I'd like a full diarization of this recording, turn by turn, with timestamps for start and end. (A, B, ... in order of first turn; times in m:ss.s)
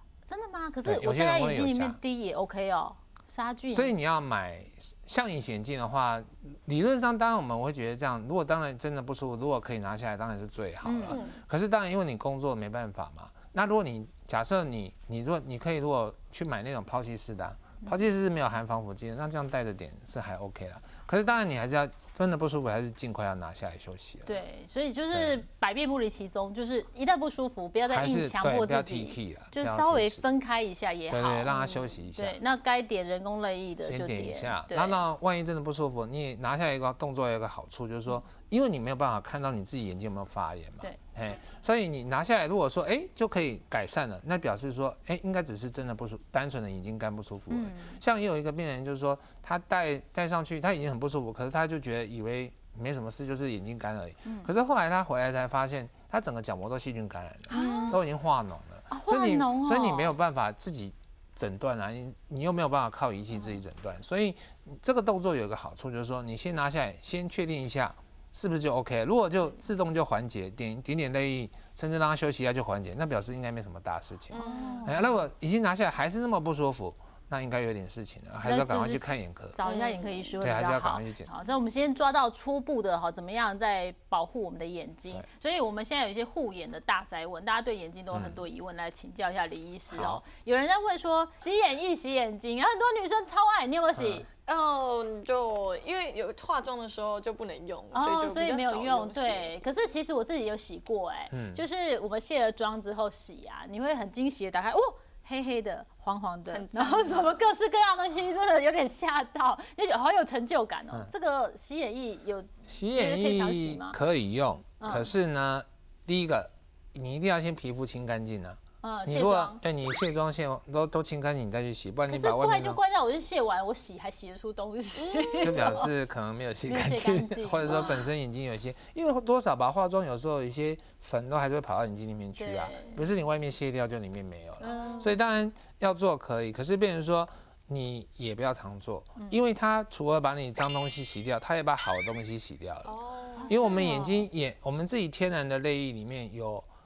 0:00.2-0:04.0 A
0:00.8-0:02.0 B
0:03.7-0:24.4 B
0:10.8-0:11.2 A
0:11.1-0:11.4 C
0:24.2-0:35.0 A
0:25.1-0:25.4 B
0:27.9-0:30.2 B
0:31.1-0:32.4 B
0:33.8-1:19.6 B
0:47.5-0:48.0 A
0:57.5-0:58.0 C
0:57.5-0:58.0 A
0:58.9-1:00.1 A
1:14.3-1:14.9 C
1:14.4-1:15.1 A
1:18.4-1:34.3 A
1:19.6-1:20.4 C
1:20.4-1:21.3 B
1:28.1-1:28.4 B
1:29.9-1:30.2 B
1:34.0-1:34.2 B
1:34.4-1:39.6 C
1:37.9-1:54.0 A
1:41.3-1:41.6 B
1:46.5-1:47.3 C
1:52.7-2:02.8 B
1:54.8-1:55.1 A
1:58.8-1:59.6 A
2:02.1-2:05.9 A
2:05.0-2:05.9 C
2:05.4-2:23.0 B
2:06.6-2:08.0 A
2:07.7-2:08.0 C
2:12.4-2:13.0 A
2:14.6-2:15.1 A
2:14.6-2:15.1 C
2:22.8-2:23.6 C
2:23.4-2:24.3 A
2:23.5-2:26.7 B